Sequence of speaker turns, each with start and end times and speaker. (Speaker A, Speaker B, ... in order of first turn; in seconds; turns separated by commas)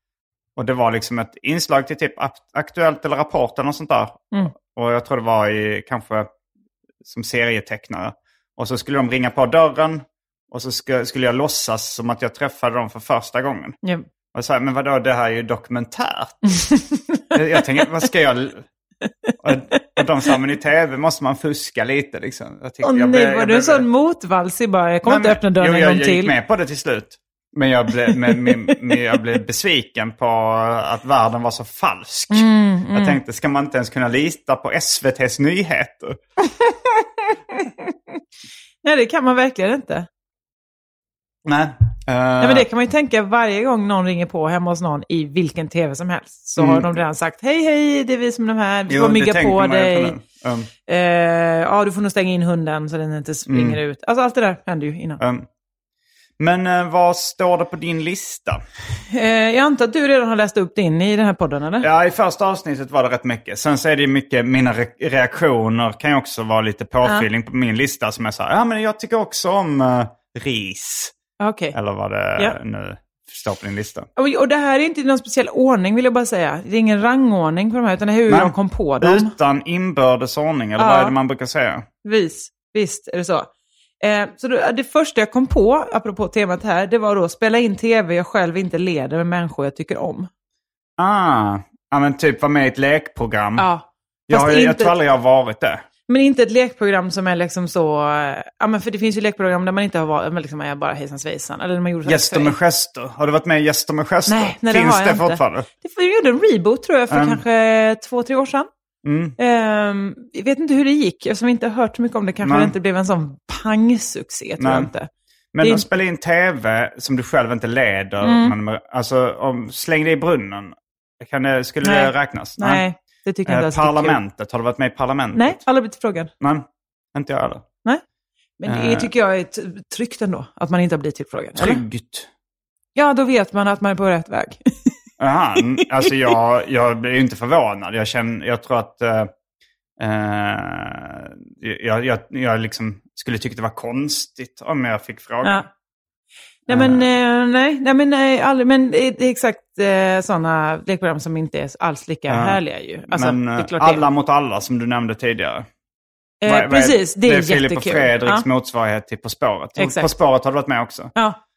Speaker A: 0.6-6.3, Speaker A: 7.0-13.8, Speaker A: 14.3-16.4, Speaker B: 16.6-17.2, Speaker A: 17.3-18.7, Speaker A: 19.4-23.9, Speaker B: 22.8-26.3, Speaker A: 25.1-36.2, Speaker B: 28.3-28.6, Speaker B: 32.3-33.2, Speaker B: 37.5-37.9, Speaker B: 38.8-40.1, Speaker A: 41.5-42.7, Speaker B: 42.4-50.2, Speaker A: 46.6-46.9, Speaker A: 48.9-50.7, Speaker B: 50.9-55.2, Speaker A: 53.5-53.8, Speaker A: 55.2-55.5, Speaker A: 56.4-58.6, Speaker B: 59.1-61.9, Speaker A: 61.8-71.1, Speaker B: 71.4-71.8, Speaker A: 71.7-74.1, Speaker B: 74.2-79.3, Speaker A: 78.3-81.9, Speaker B: 80.8-81.2, Speaker B: 82.0-83.5, Speaker B: 84.0-90.3, Speaker A: 91.0-93.7, Speaker B: 93.6-95.0, Speaker A: 94.3-95.8, Speaker B: 96.1-102.5, Speaker A: 102.0-105.7, Speaker B: 104.3-108.7, Speaker A: 107.1-107.4, Speaker A: 109.0-109.3, Speaker B: 109.4-115.1, Speaker A: 112.4-112.7, Speaker A: 114.6-114.9, Speaker A: 115.5-122.8, Speaker B: 115.6-115.9, Speaker B: 118.2-118.5, Speaker B: 121.8-124.2, Speaker A: 123.5-125.6, Speaker B: 125.3-126.3, Speaker A: 126.4-127.7, Speaker B: 128.6-131.8, Speaker A: 128.7-129.1, Speaker A: 131.6-132.3, Speaker B: 133.0-134.9, Speaker A: 135.2-139.3, Speaker A: 140.0-145.7, Speaker B: 146.7-154.0, Speaker A: 146.7-147.1, Speaker A: 152.3-155.7, Speaker B: 156.4-158.4, Speaker A: 156.5-161.1, Speaker B: 159.8-160.1